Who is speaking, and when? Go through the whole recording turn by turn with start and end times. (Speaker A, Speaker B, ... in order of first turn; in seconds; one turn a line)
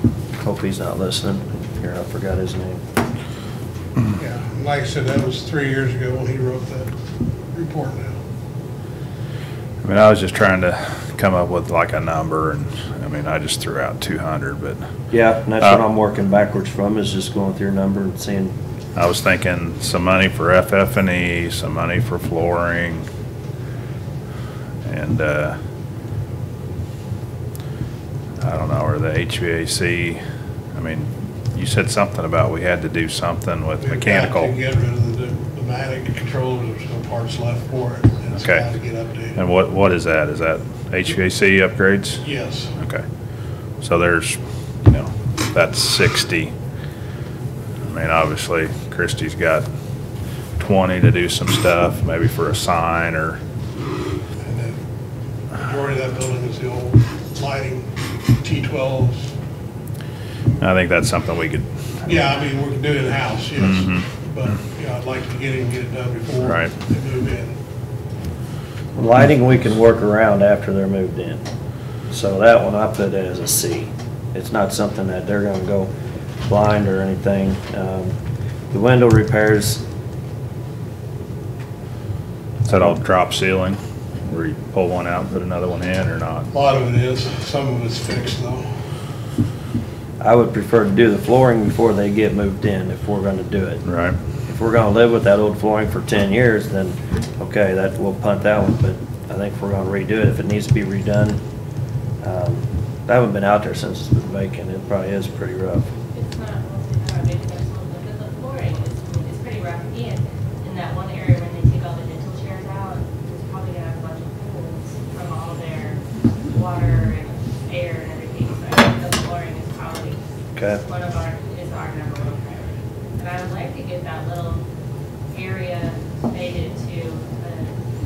Speaker A: 0.4-2.8
Speaker B: 4.2-6.9
Speaker B: 7.5-8.2
Speaker C: 9.8-14.8
Speaker A: 15.1-18.5
Speaker C: 19.0-23.1
Speaker C: 24.9-25.6
Speaker C: 28.4-30.2
Speaker C: 30.8-34.6
Speaker B: 33.8-39.4
Speaker C: 38.3-38.6
Speaker C: 39.4-42.2
Speaker B: 42.2-42.7
Speaker C: 42.8-43.0
Speaker C: 43.8-46.5
Speaker C: 47.9-49.7
Speaker C: 50.6-53.4
Speaker B: 54.4-54.8
Speaker B: 55.5-57.9
Speaker B: 58.4-59.3
Speaker C: 60.6-61.7
Speaker B: 62.0-67.5
Speaker C: 63.6-64.0
Speaker C: 66.4-66.7
Speaker A: 69.0-71.4
Speaker A: 72.1-75.9
Speaker A: 76.5-78.2
Speaker A: 78.7-79.8
Speaker C: 82.7-86.5
Speaker B: 86.5-88.7
Speaker A: 90.2-93.8
Speaker C: 93.8-94.2
Speaker A: 94.5-101.4
Speaker A: 102.2-105.9
Speaker D: 106.1-120.2
Speaker A: 120.6-120.8
Speaker D: 120.8-124.7
Speaker D: 125.3-127.7